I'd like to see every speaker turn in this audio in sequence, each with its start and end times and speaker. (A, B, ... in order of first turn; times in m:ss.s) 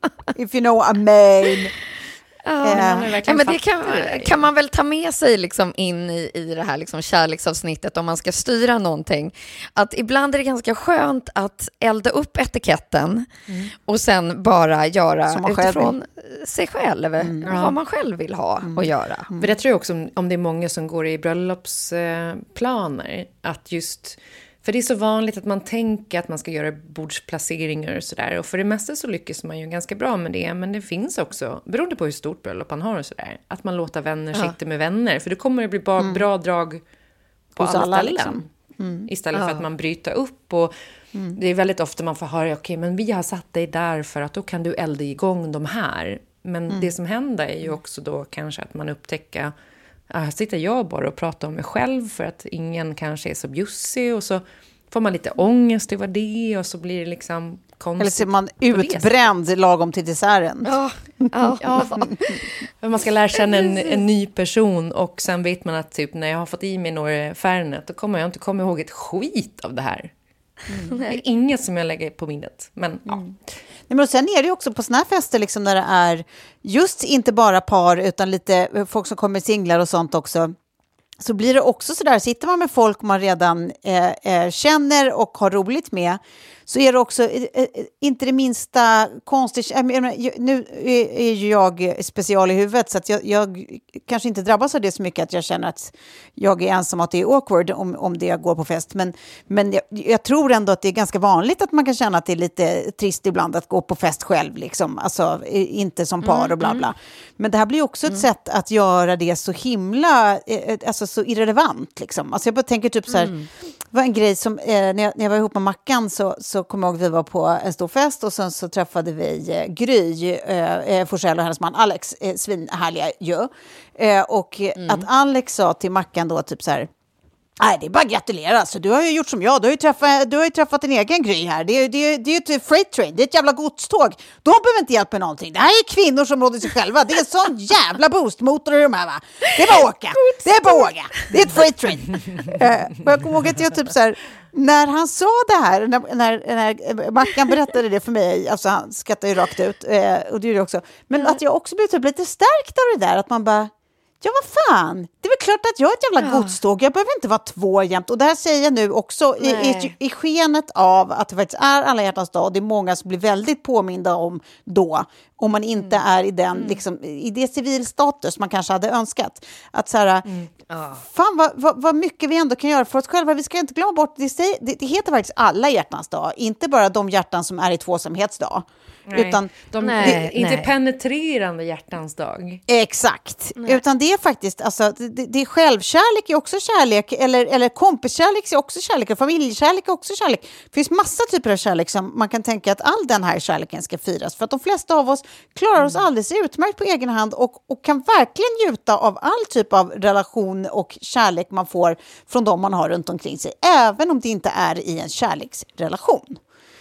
0:00.4-0:01.7 A
0:02.5-0:13.3 B
0:02.6-0:03.1 A
0:02.7-0:04.4 C
0:13.9-0:19.3 B
0:15.3-0:15.9 A
0:17.2-0:17.5 A
0:17.5-0:17.8 C
0:18.6-0:19.5 A
0:19.4-0:36.8 C
0:36.0-0:36.2 A
0:37.6-0:38.5 C
0:37.6-0:39.1 A
0:39.1-0:40.7 C
0:39.3-0:39.6 B
0:41.4-0:49.5 C
0:50.1-0:59.2 C
0:58.0-1:00.7 A
1:00.6-1:02.7 B
1:01.3-1:02.4 A
1:02.8-1:10.1 C
1:03.4-1:04.0 B
1:10.8-1:11.2 B
1:11.0-1:13.2 C
1:13.9-1:20.5 A
1:21.2-1:53.4 A
1:46.2-1:46.9 B
1:53.1-1:53.5 B
1:53.9-2:06.9 A
2:04.8-2:05.1 B
2:07.6-2:50.3 A
2:20.2-2:21.3 B
2:36.2-2:36.6 B
2:39.4-2:39.9 B
2:50.7-2:51.0 B
2:51.0-3:00.2 A
2:59.1-3:02.6 C
2:59.8-3:00.7 B
3:02.7-3:26.4 A